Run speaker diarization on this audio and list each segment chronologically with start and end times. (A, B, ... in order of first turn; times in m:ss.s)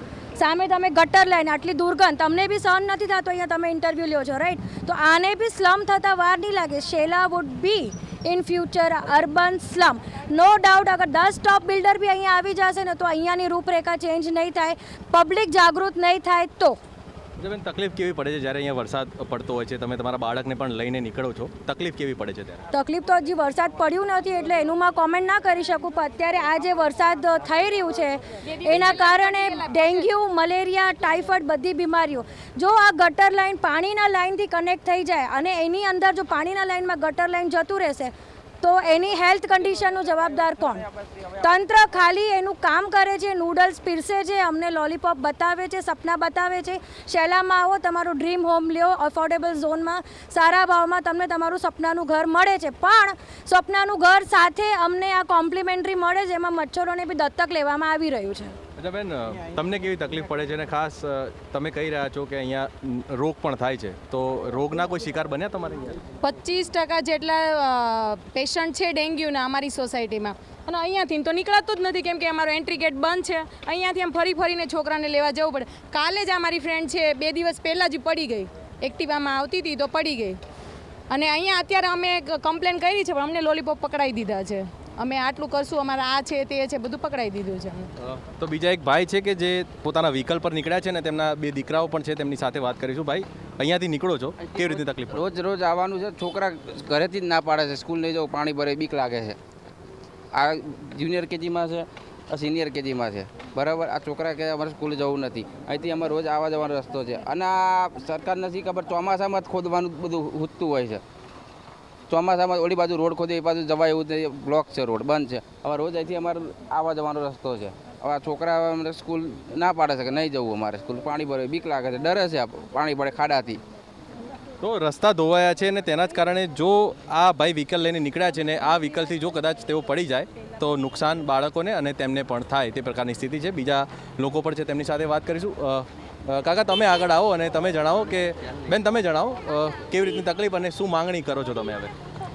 0:00.4-0:16.8 A
0:17.4-0:22.6 B
0:22.7-0:40.9 A
0:28.7-0:30.0 C
0:41.4-0:58.6 A
0:58.8-1:06.0 B
1:06.2-1:20.4 C
1:21.1-1:27.9 C
1:28.0-1:35.3 B
1:34.5-1:39.4 D
1:40.3-1:51.0 D
1:52.1-2:03.6 D
2:04.6-2:21.9 B